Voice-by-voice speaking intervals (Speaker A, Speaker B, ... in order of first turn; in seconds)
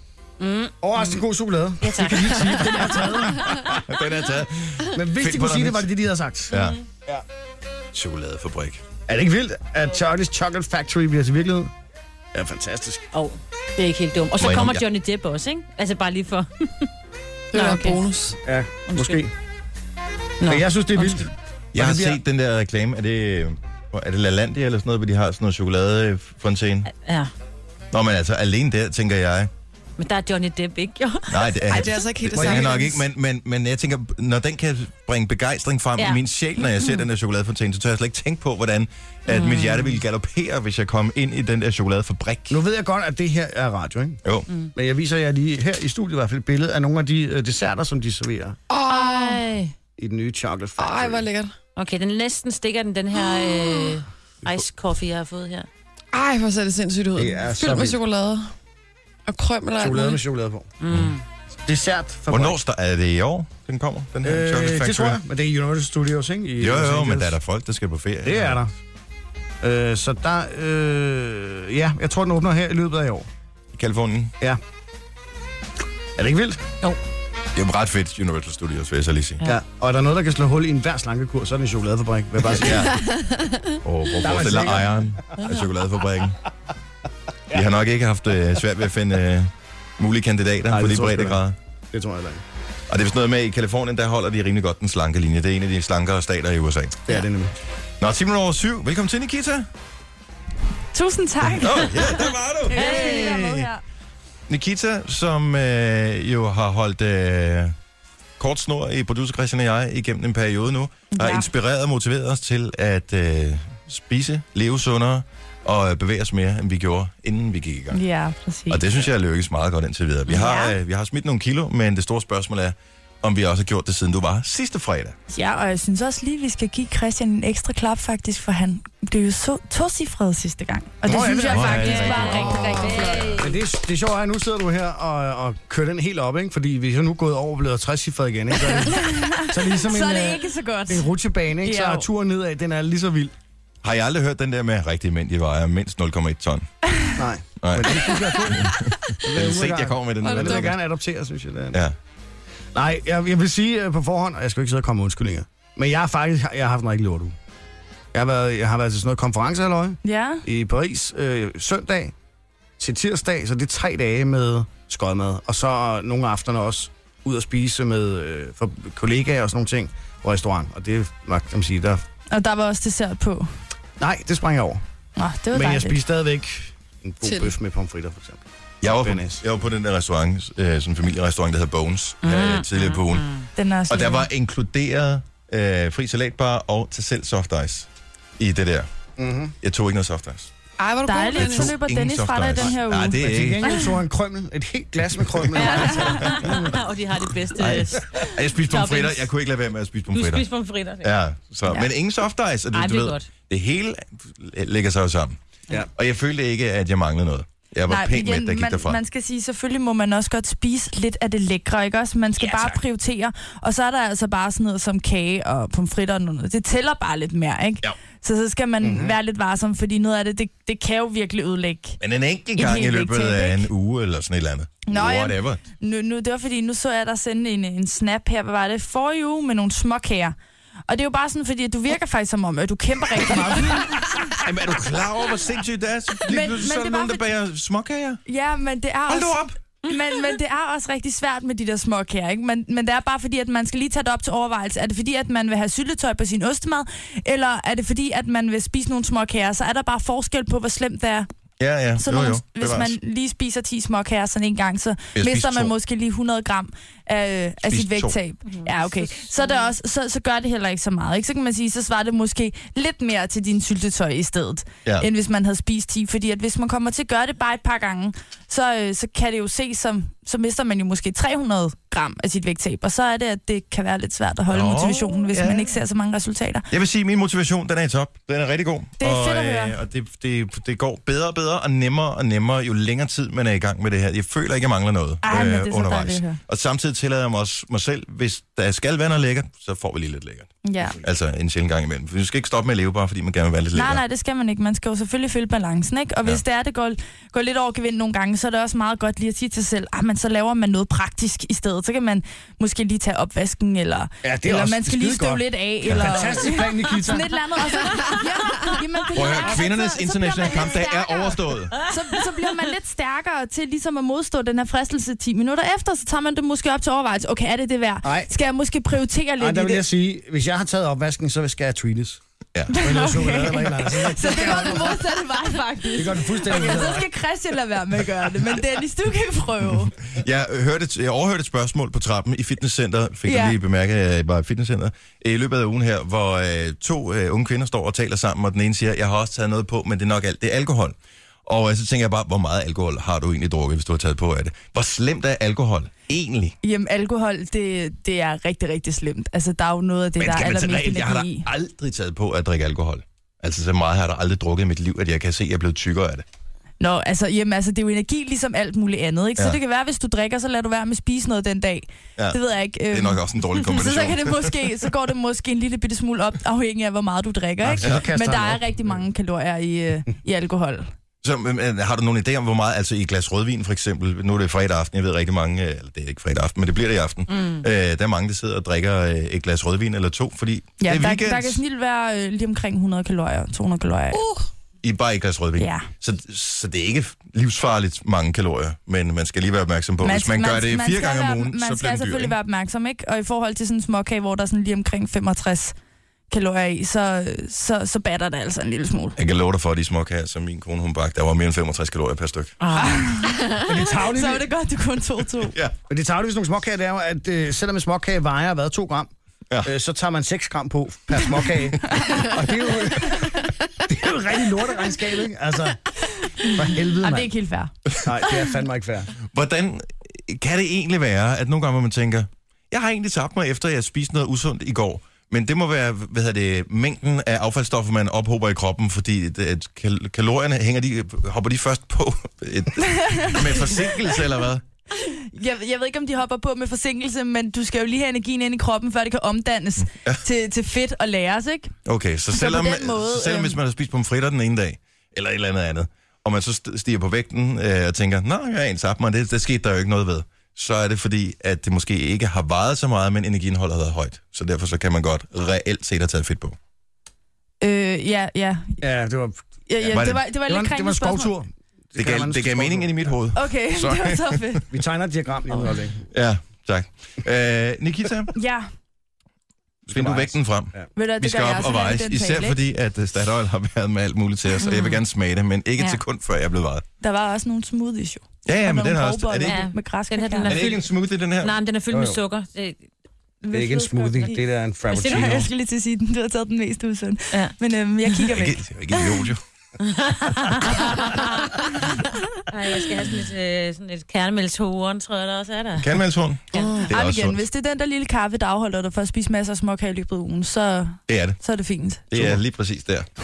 Speaker A: 0.4-1.2, 1.8-3.0, 6.5-6.8, 13.1-16.9, 17.5-18.0, 18.9-19.2, 20.4-21.3, 26.9-27.3, 30.0-31.9, 36.0-37.0, 39.3-40.0, 48.9-49.7, 51.8-55.7, 60.8-61.2, 102.7-103.5, 131.8-133.6, 182.2-183.5, 195.6-199.3, 200.1-201.1, 202.7-203.3, 377.3-377.6, 402.6-403.4, 474.6-475.0, 479.4-482.8, 489.8-491.5, 492.5-495.9
Speaker B: 0.8-3.8, 4.9-7.2, 9.1-11.7, 12.3-13.1, 18.4-19.3, 20.4-22.2, 32.3-32.8, 42.5-44.2, 44.8-48.6, 50.0-51.2, 57.2-58.0, 59.8-60.7, 61.6-62.6, 64.2-67.4, 68.2-68.7, 69.6-73.3, 76.2-76.6, 79.4-82.9, 84.2-85.1, 90.7-92.4, 97.1-97.5, 131.1-143.3, 147.2-151.8, 152.8-157.4, 158.1-162.1, 162.8-172.0, 174.0-174.8, 175.5-179.4, 189.2-189.6, 193.2-196.8, 197.6-198.0, 218.8-219.2, 304.2-307.4, 318.0-318.3, 319.4-322.2, 322.8-325.1, 325.9-327.1, 367.6-369.0, 403.6-404.5, 405.9-409.1, 409.6-417.3, 418.0-419.1, 458.8-463.2, 464.7-466.0, 469.9-470.9, 481.9-482.2, 483.5-485.5
Speaker C: 3.4-5.9, 6.5-6.8, 7.9-8.8, 14.4-14.8, 21.7-26.9, 27.9-29.5, 31.3-42.6, 62.3-65.2, 66.6-68.6, 73.7-74.3, 77.5-79.4, 82.4-83.1, 83.8-86.4, 87.5-91.6, 92.9-97.0, 98.0-99.7, 101.5-103.7, 104.5-107.8, 108.4-118.0, 118.7-125.2, 131.4-133.3, 143.8-146.7, 147.6-150.8, 178.8-183.3, 183.9-187.9, 188.4-188.9, 189.6-190.5, 191.4-193.7, 195.4-196.6, 197.6-200.5, 201.0-205.4, 205.9-209.0, 212.5-212.8, 222.0-225.6, 234.4-238.2, 239.1-239.6, 251.6-253.0, 255.2-255.7, 257.7-258.2, 274.5-275.8, 276.7-294.0, 305.8-306.3, 309.1-311.9, 330.0-346.6, 350.2-356.2, 362.9-364.6, 371.2-381.6, 384.8-392.4, 399.2-402.6, 405.5-405.7, 419.3-434.6, 439.8-440.2, 441.9-456.6, 459.9-460.2, 462.0-464.6, 466.1-468.3, 469.9-476.9, 478.4-479.6, 480.4-481.6, 488.3-489.4, 495.8-497.4, 501.1-501.4, 502.1-503.1
Speaker D: 17.5-18.4, 31.7-33.0, 48.7-49.4, 50.8-51.5, 56.1-58.5, 59.3-60.2, 82.9-83.8, 150.2-150.7, 177.2-177.5, 190.8-191.7, 384.1-384.5, 496.5-496.9
Speaker E: 100.9-102.0, 102.7-103.8, 111.1-111.5, 117.9-118.8, 120.3-120.8, 125.3-133.3, 138.8-141.1, 141.6-142.1, 160.0-160.4, 172.3-173.5, 175.2-176.0, 183.6-184.3, 191.1-193.9, 207.9-222.0, 222.6-223.7, 224.8-230.4, 230.9-234.2, 236.3-237.3, 238.3-251.3, 252.0-276.7, 279.0-279.8, 285.2-286.4, 290.6-291.0, 293.7-319.9, 322.7-329.9, 333.2-333.6, 346.6-351.5, 356.8-370.9, 380.8-384.2, 385.6-385.9, 390.0-395.8, 396.3-399.2, 402.8-405.6, 417.0-417.7, 433.0-433.4, 435.0-441.8, 442.3-443.6, 457.6-458.8, 459.7-461.3, 463.3-464.6, 468.3-468.7, 470.9-472.6, 477.0-480.6, 483.4-484.4, 484.9-489.3, 496.9-502.2